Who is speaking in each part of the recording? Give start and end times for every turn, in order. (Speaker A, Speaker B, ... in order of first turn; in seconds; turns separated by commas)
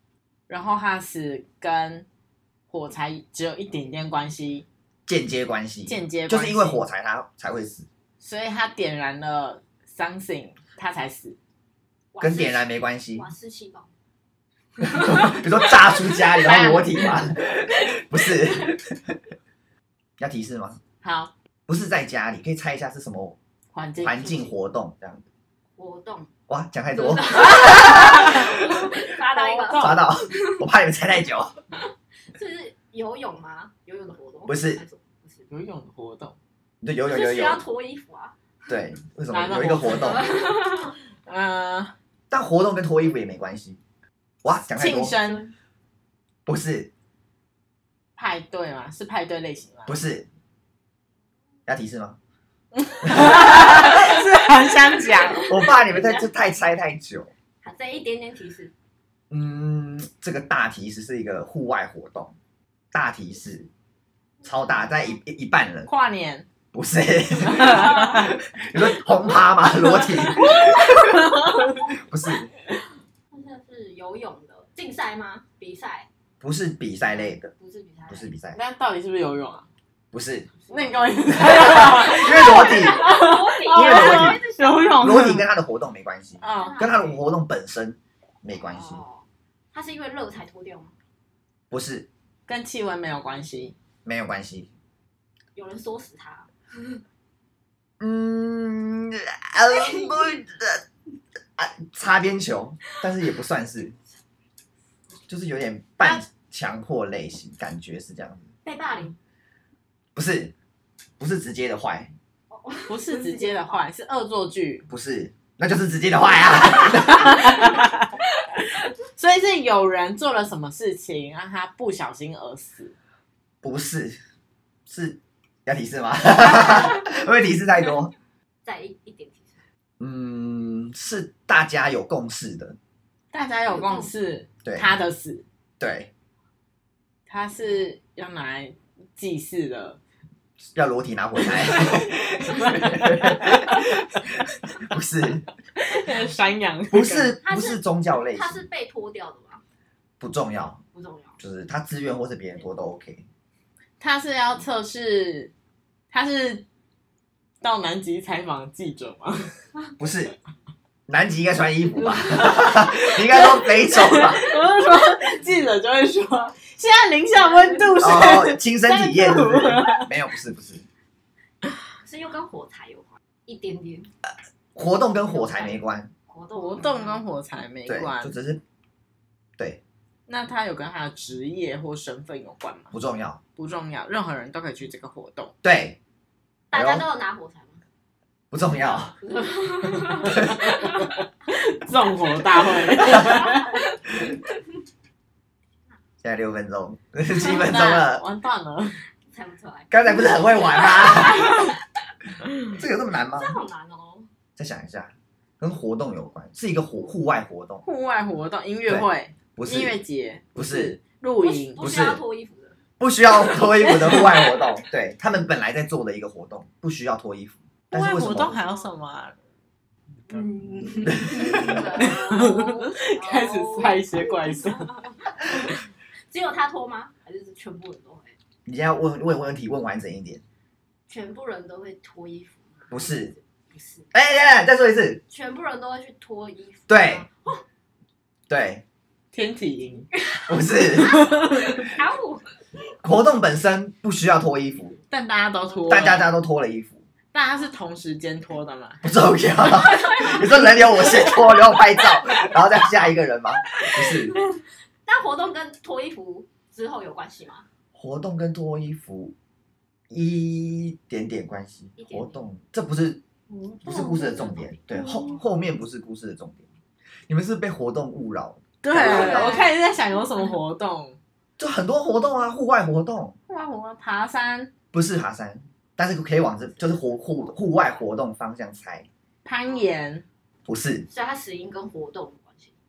Speaker A: 0.5-2.1, Speaker A: 2.7-4.7, Speaker B: 5.1-7.9, Speaker A: 5.9-6.8, Speaker A: 8.2-11.4, Speaker C: 12.1-13.9, Speaker B: 12.2-13.3, Speaker C: 14.8-15.7, Speaker B: 14.8-19.1, Speaker A: 16.3-17.2, Speaker C: 17.8-18.7, Speaker B: 20.2-20.8, Speaker A: 21.0-21.3, Speaker B: 21.7-23.4, Speaker A: 23.7-24.5, Speaker B: 24.0-25.2, Speaker C: 25.8-26.3, Speaker B: 26.5-28.8, Speaker C: 26.9-30.6, Speaker A: 27.6-28.5, Speaker A: 29.2-30.1, Speaker B: 29.8-31.6, Speaker C: 31.8-35.5, Speaker B: 34.5-34.8, Speaker A: 35.5-36.4, Speaker B: 36.8-37.6, Speaker C: 37.1-38.4, Speaker B: 38.7-40.3, Speaker A: 39.3-40.3, Speaker C: 39.9-41.0, Speaker A: 41.3-41.9, Speaker B: 42.3-43.8, Speaker B: 44.4-45.2, Speaker A: 44.8-45.5, Speaker C: 45.1-45.5, Speaker B: 46.5-46.9, Speaker A: 48.2-50.0, Speaker B: 49.9-50.3, Speaker B: 51.7-52.2, Speaker A: 52.8-55.4, Speaker B: 53.0-53.8, Speaker C: 55.0-56.3, Speaker B: 55.5-57.3, Speaker C: 57.6-58.7, Speaker B: 59.3-62.4, Speaker B: 62.9-63.7, Speaker C: 64.4-65.2, Speaker B: 64.5-65.9, Speaker A: 65.9-66.5, Speaker B: 66.7-71.3, Speaker C: 67.7-68.2, Speaker C: 70.1-71.7, Speaker A: 71.4-71.8, Speaker B: 72.0-72.5, Speaker C: 73.3-76.1, Speaker B: 76.4-77.5, Speaker C: 77.0-78.3, Speaker B: 78.1-78.6, Speaker A: 78.5-79.7, Speaker B: 80.1-80.5, Speaker C: 80.6-85.1, Speaker A: 80.7-85.5, Speaker B: 81.6-83.0, Speaker B: 83.7-84.4, Speaker B: 85.0-89.0, Speaker A: 86.4-86.9, Speaker C: 86.4-87.3, Speaker C: 88.5-90.9, Speaker B: 91.7-92.1, Speaker A: 92.5-93.8, Speaker B: 94.0-94.7, Speaker C: 95.5-96.5, Speaker B: 98.0-100.8, Speaker C: 99.6-100.4, Speaker B: 101.6-104.0, Speaker B: 105.3-108.5, Speaker A: 106.0-106.2, Speaker C: 108.6-109.2, Speaker B: 110.2-110.5, Speaker B: 111.2-112.1, Speaker C: 112.5-113.9, Speaker A: 112.9-114.9, Speaker B: 114.9-117.3, Speaker C: 116.7-117.7, Speaker A: 117.1-118.1, Speaker A: 119.2-123.0, Speaker B: 123.6-124.2, Speaker B: 124.9-128.1, Speaker C: 128.7-129.6, Speaker B: 130.0-132.8, Speaker A: 133.3-135.4, Speaker C: 133.7-134.1, Speaker B: 134.7-134.9, Speaker B: 135.8-136.1, Speaker A: 137.3-140.0, Speaker B: 140.8-145.5, Speaker C: 141.7-142.9, Speaker A: 142.6-143.8, Speaker A: 145.8-147.4, Speaker B: 146.9-148.6, Speaker C: 147.4-149.6, Speaker B: 150.2-150.8, Speaker C: 150.9-151.4, Speaker B: 151.4-153.2, Speaker A: 154.0-155.5, Speaker A: 156.1-156.7, Speaker A: 157.6-159.5, Speaker B: 160.0-160.3, Speaker B: 161.1-164.5, Speaker C: 162.3-162.7, Speaker A: 162.5-170.1, Speaker C: 167.3-168.2, Speaker B: 168.0-170.8, Speaker C: 172.0-174.1, Speaker B: 174.3-176.1, Speaker C: 175.2-177.2, Speaker A: 176.6-178.3, Speaker B: 177.9-178.6, Speaker A: 180.3-182.9, Speaker B: 182.9-183.4, Speaker A: 183.6-185.5, Speaker B: 185.6-186.0, Speaker C: 186.7-187.8, Speaker B: 186.7-187.1, Speaker B: 188.5-189.2, Speaker C: 189.2-191.1, Speaker B: 190.3-190.6, Speaker A: 191.5-193.8, Speaker C: 192.7-194.6, Speaker B: 196.2-198.2, Speaker A: 197.3-199.0, Speaker C: 199.3-201.8, Speaker B: 199.9-201.6, Speaker C: 202.7-204.3, Speaker B: 202.8-203.6, Speaker B: 204.6-207.8, Speaker A: 207.8-211.9, Speaker B: 208.9-210.0, Speaker B: 210.6-211.0, Speaker C: 211.4-212.8, Speaker B: 211.8-212.2, Speaker B: 213.0-218.6, Speaker A: 213.7-214.7, Speaker A: 217.9-219.3, Speaker C: 220.3-225.8, Speaker B: 221.1-221.8, Speaker A: 221.4-224.9, Speaker C: 226.3-228.4, Speaker B: 228.7-230.4, Speaker C: 231.1-234.1, Speaker B: 232.9-233.3, Speaker B: 234.1-235.2, Speaker C: 235.3-237.6, Speaker B: 236.9-237.2, Speaker B: 238.5-238.8, Speaker A: 239.3-240.1, Speaker C: 240.1-242.6, Speaker B: 240.5-241.2, Speaker A: 241.0-241.9, Speaker B: 243.0-245.0, Speaker A: 245.1-246.4, Speaker B: 245.9-247.0, Speaker A: 247.3-249.0, Speaker B: 249.0-254.4, Speaker C: 249.6-252.4, Speaker C: 255.1-257.7, Speaker B: 257.9-259.4, Speaker B: 260.1-263.2, Speaker C: 262.0-262.4, Speaker A: 263.5-265.4, Speaker B: 263.8-266.7, Speaker C: 264.6-264.8, Speaker B: 267.3-269.5, Speaker A: 268.8-271.2, Speaker C: 268.9-269.7, Speaker B: 271.6-273.4, Speaker A: 273.5-274.7, Speaker B: 274.9-279.1, Speaker C: 276.6-278.1, Speaker A: 279.4-280.2, Speaker B: 280.7-281.1, Speaker C: 281.1-282.7